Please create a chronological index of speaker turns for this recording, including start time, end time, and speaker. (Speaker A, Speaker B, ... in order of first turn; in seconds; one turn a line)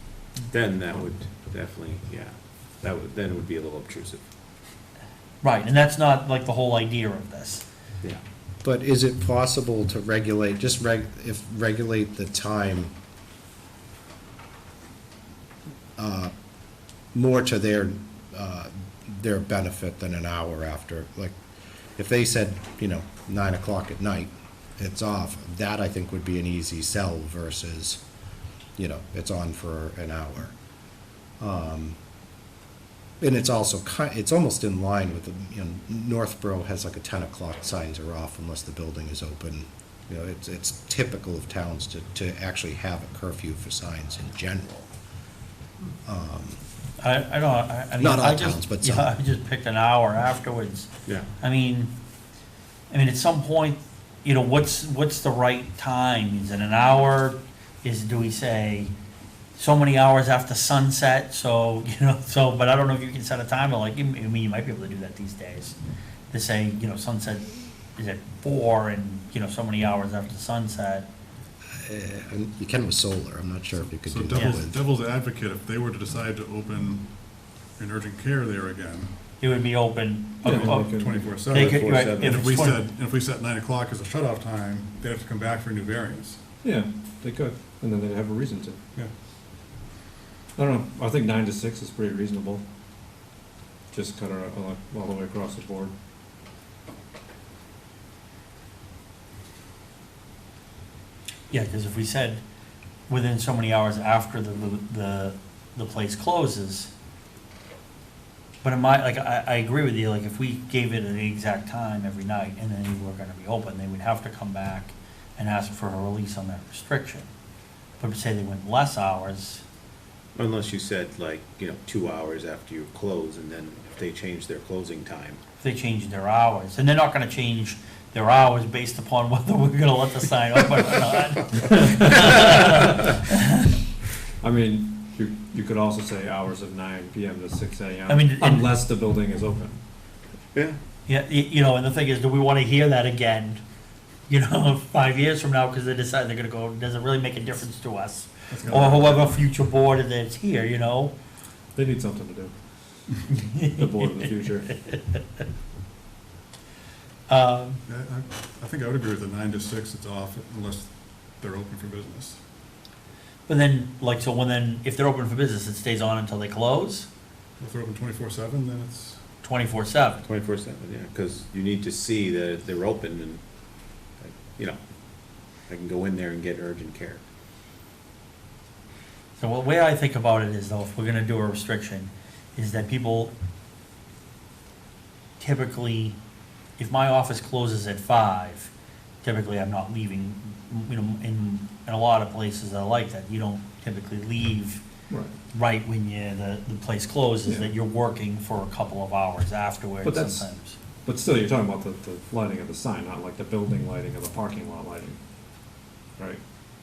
Speaker A: 0.5-4.2
Speaker B: 5.4-7.6
Speaker C: 8.6-12.9
Speaker C: 16.0-16.3
Speaker C: 17.1-21.4
Speaker C: 22.0-28.0
Speaker C: 28.8-30.6
Speaker C: 31.4-31.9
Speaker C: 33.2-44.9
Speaker C: 46.0-46.6
Speaker B: 47.0-51.9
Speaker C: 48.0-49.1
Speaker B: 52.9-58.9
Speaker B: 59.5-65.8
Speaker B: 66.3-71.1
Speaker C: 71.8-74.8
Speaker D: 74.0-79.2
Speaker B: 79.4-80.9
Speaker E: 80.4-82.7
Speaker D: 80.4-86.4
Speaker B: 81.5-82.8
Speaker E: 86.6-88.8
Speaker E: 90.5-92.6
Speaker E: 93.9-95.9
Speaker B: 101.5-102.4
Speaker B: 103.1-106.9
Speaker B: 108.6-117.3
Speaker B: 118.0-119.6
Speaker A: 120.3-125.4
Speaker B: 125.6-133.8
Speaker E: 134.4-139.8
Speaker B: 138.1-138.7
Speaker B: 141.1-143.6
Speaker B: 144.3-151.1
Speaker D: 148.5-149.3
Speaker E: 151.7-152.9
Speaker B: 153.3-155.2
Speaker E: 153.7-154.7
Speaker B: 157.3-157.8
Speaker D: 157.9-162.4
Speaker B: 163.5-167.1
Speaker D: 167.6-169.2
Speaker B: 169.4-170.2
Speaker A: 170.2-177.2
Speaker B: 179.4-183.3
Speaker B: 185.4-186.2
Speaker B: 186.8-188.7
Speaker B: 189.2-194.8
Speaker B: 195.5-200.8
Speaker E: 197.4-197.7
Speaker E: 200.0-200.5
Speaker E: 201.0-205.2